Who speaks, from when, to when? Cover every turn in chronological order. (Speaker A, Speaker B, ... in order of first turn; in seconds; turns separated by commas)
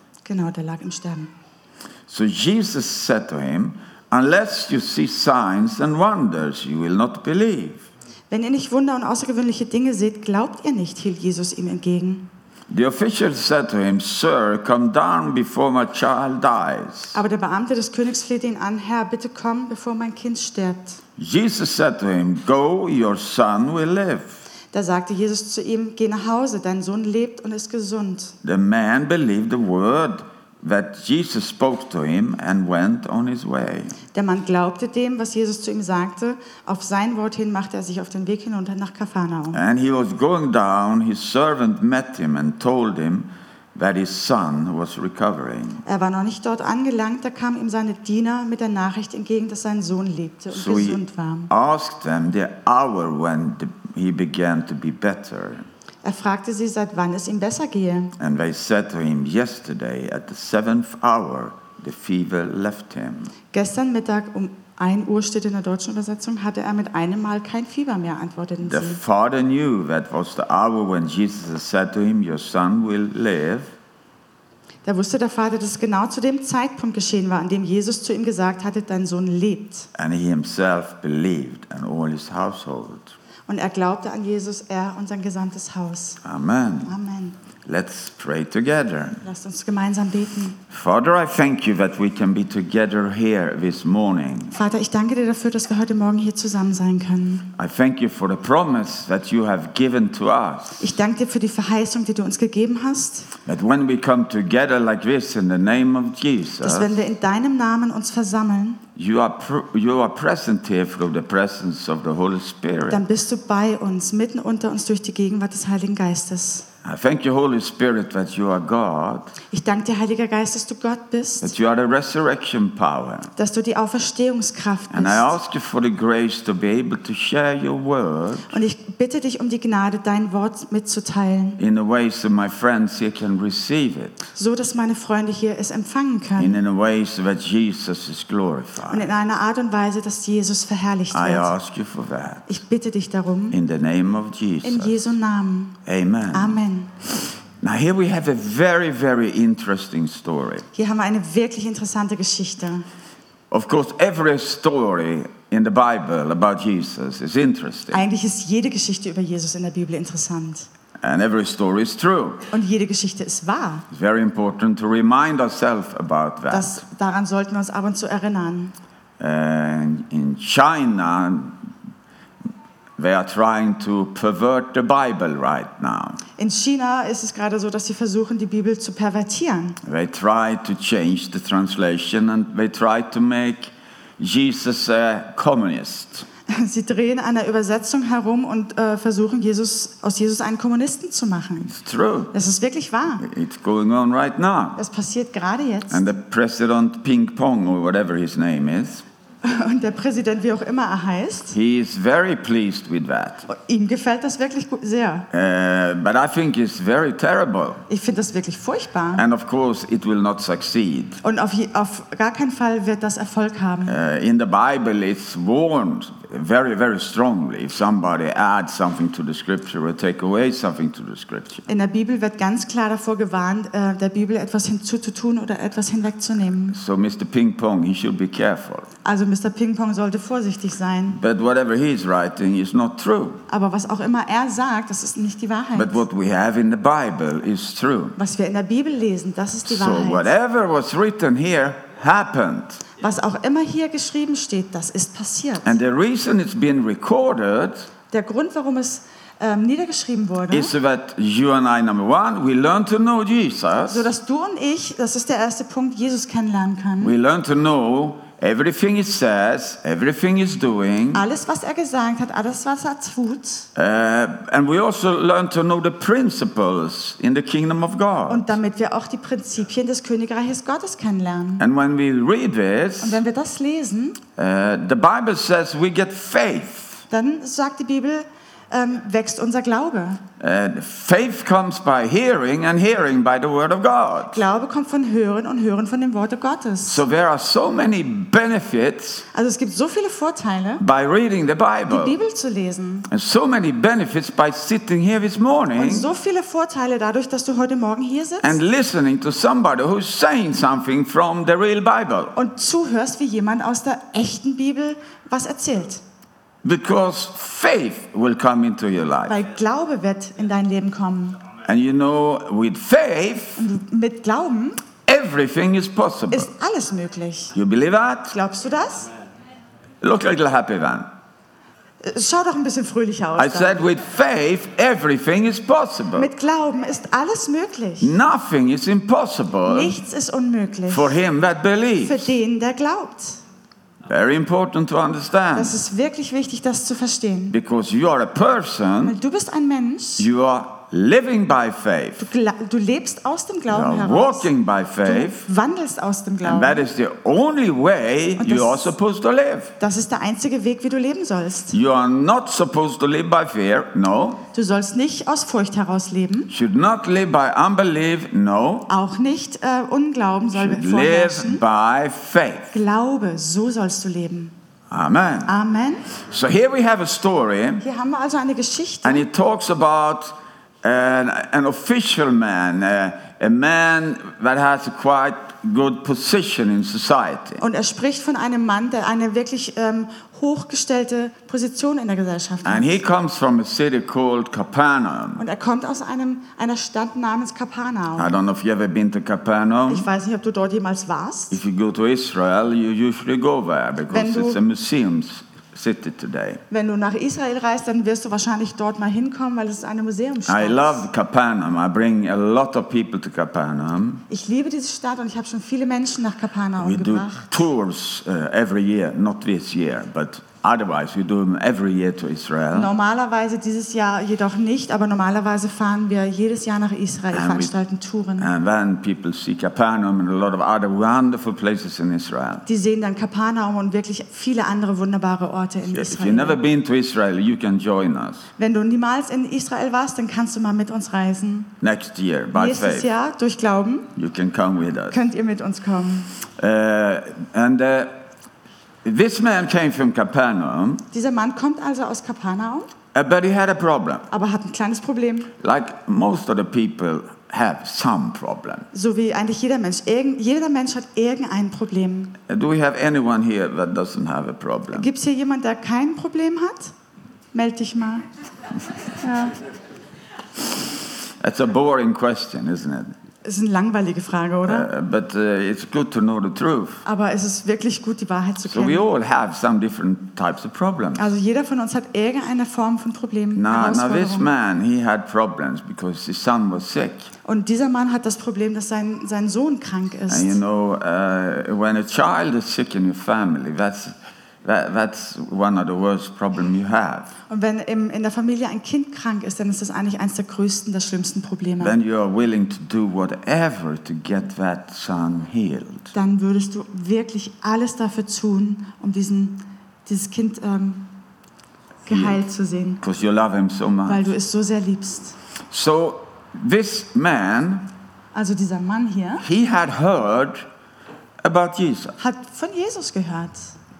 Speaker A: 0.2-1.3, Speaker B: 2.1-7.9, Speaker A: 8.3-12.3, Speaker B: 12.7-17.2, Speaker A: 17.1-21.0, Speaker B: 21.2-24.4, Speaker A: 24.7-28.4, Speaker B: 28.4-34.0, Speaker A: 34.1-39.6, Speaker B: 39.5-45.8, Speaker A: 45.8-51.5, Speaker B: 50.5-55.6, Speaker A: 56.0-58.1, Speaker B: 58.2-63.3, Speaker A: 63.5-69.0, Speaker B: 68.6-73.7, Speaker A: 74.8-79.9, Speaker B: 79.9-83.1, Speaker A: 83.5-86.2, Speaker B: 86.2-86.9, Speaker A: 86.8-87.4, Speaker B: 87.6-89.2, Speaker A: 89.2-90.6, Speaker B: 90.7-94.5, Speaker A: 94.5-97.5, Speaker B: 97.5-100.8, Speaker A: 100.8-103.3, Speaker B: 103.5-107.0, Speaker A: 106.6-108.8, Speaker B: 109.0-113.0, Speaker A: 112.9-116.7, Speaker B: 116.8-119.3, Speaker A: 119.5-121.5, Speaker B: 121.4-123.3, Speaker A: 123.4-125.3, Speaker B: 124.9-128.6, Speaker A: 128.5-131.6, Speaker B: 131.6-134.2, Speaker A: 134.3-136.6, Speaker B: 136.4-139.1, Speaker A: 138.9-141.5, Speaker B: 141.1-142.5, Speaker A: 142.5-143.6, Speaker B: 143.5-145.0, Speaker A: 144.6-145.8, Speaker B: 145.8-146.6, Speaker A: 146.3-147.0, Speaker B: 147.6-150.6, Speaker A: 150.7-152.8, Speaker B: 153.5-158.0, Speaker A: 157.9-160.7, Speaker B: 161.0-162.4, Speaker A: 162.5-163.8, Speaker B: 163.9-166.8, Speaker A: 166.5-168.7, Speaker B: 169.2-171.6, Speaker B: 173.0-176.2, Speaker A: 176.4-179.8, Speaker B: 179.8-186.3, Speaker A: 186.5-191.7, Speaker B: 191.6-192.3, Speaker A: 192.3-193.2, Speaker B: 193.2-194.8, Speaker A: 194.8-196.1, Speaker B: 195.9-199.0, Speaker A: 199.4-201.6, Speaker B: 201.5-203.5, Speaker A: 203.5-205.3, Speaker B: 205.3-207.8, Speaker A: 207.9-209.2, Speaker B: 209.1-211.2, Speaker A: 211.2-214.0, Speaker B: 213.8-221.7, Speaker A: 221.7-226.8, Speaker B: 226.7-228.9, Speaker A: 229.0-231.2, Speaker B: 231.1-233.4, Speaker A: 233.5-236.0, Speaker B: 235.7-238.2, Speaker A: 238.2-240.3, Speaker B: 239.7-242.8, Speaker A: 243.0-245.8, Speaker B: 245.6-247.9, Speaker A: 248.1-250.7, Speaker B: 250.5-254.1, Speaker A: 253.9-257.1, Speaker B: 257.0-261.2, Speaker A: 261.1-263.7, Speaker B: 263.7-268.5, Speaker A: 268.3-271.6, Speaker B: 271.6-273.2, Speaker A: 273.0-274.2, Speaker B: 274.4-277.0, Speaker A: 277.1-280.2, Speaker B: 280.4-284.4, Speaker A: 284.3-287.0, Speaker B: 286.8-289.2, Speaker A: 289.3-290.8, Speaker B: 290.8-292.1, Speaker A: 291.9-293.1, Speaker B: 293.1-296.1, Speaker A: 295.8-298.6, Speaker B: 298.4-302.3, Speaker A: 302.3-306.0, Speaker B: 306.6-309.4, Speaker A: 309.3-311.4, Speaker B: 311.6-313.6, Speaker A: 313.6-314.8, Speaker B: 315.1-316.5, Speaker A: 316.3-317.6, Speaker B: 317.5-318.4, Speaker A: 318.3-319.1, Speaker B: 320.0-321.1, Speaker A: 322.0-323.9, Speaker B: 323.4-326.3, Speaker A: 326.1-328.1, Speaker B: 328.0-329.9, Speaker A: 329.6-331.2, Speaker B: 330.9-332.3, Speaker A: 332.0-333.4, Speaker B: 334.1-335.8, Speaker A: 335.5-337.6, Speaker B: 337.5-339.1, Speaker A: 339.0-340.3, Speaker B: 340.2-342.3, Speaker A: 342.2-344.5, Speaker B: 343.7-345.5, Speaker A: 345.0-346.9, Speaker B: 346.4-349.8, Speaker A: 348.4-348.9, Speaker A: 349.8-351.8, Speaker B: 351.7-354.4, Speaker A: 354.5-356.5, Speaker B: 356.5-358.9, Speaker A: 358.9-361.6, Speaker B: 360.5-362.7, Speaker A: 362.7-364.5, Speaker B: 364.9-365.5, Speaker A: 365.4-366.0, Speaker B: 366.1-367.8, Speaker A: 367.8-369.2, Speaker B: 369.0-377.6, Speaker A: 377.6-383.0, Speaker B: 382.6-385.4, Speaker A: 385.4-388.3, Speaker B: 388.1-390.1, Speaker A: 389.9-391.6, Speaker B: 391.5-396.6, Speaker A: 394.1-394.6, Speaker A: 396.7-401.0, Speaker B: 400.5-404.2, Speaker A: 404.3-407.5, Speaker B: 406.8-412.9, Speaker A: 412.7-418.5, Speaker B: 417.3-417.7, Speaker B: 418.4-422.6, Speaker A: 422.6-426.6, Speaker B: 425.9-428.5, Speaker A: 428.6-431.7, Speaker B: 431.8-433.1, Speaker A: 432.5-434.1, Speaker B: 434.1-435.2, Speaker A: 435.1-436.3, Speaker B: 436.6-438.2, Speaker B: 439.0-441.0, Speaker A: 441.1-442.9, Speaker B: 443.1-444.2, Speaker A: 444.3-445.5, Speaker B: 445.6-448.9, Speaker A: 448.9-452.4, Speaker B: 452.5-455.1, Speaker A: 454.9-456.9, Speaker A: 457.5-458.3, Speaker A: 459.2-459.6, Speaker B: 461.4-463.1, Speaker A: 463.4-464.9, Speaker B: 464.6-467.0, Speaker A: 467.0-469.1, Speaker B: 468.6-471.3, Speaker A: 471.1-474.5, Speaker B: 473.5-477.3, Speaker A: 477.4-480.6, Speaker B: 480.3-487.3, Speaker A: 487.5-491.9, Speaker B: 491.8-496.1, Speaker A: 496.1-501.1, Speaker A: 502.1-503.0, Speaker B: 502.1-502.4, Speaker B: 503.0-504.3, Speaker A: 504.1-505.4, Speaker B: 505.7-507.9, Speaker A: 508.3-509.4, Speaker B: 509.4-510.6, Speaker B: 511.4-512.2, Speaker A: 512.2-513.7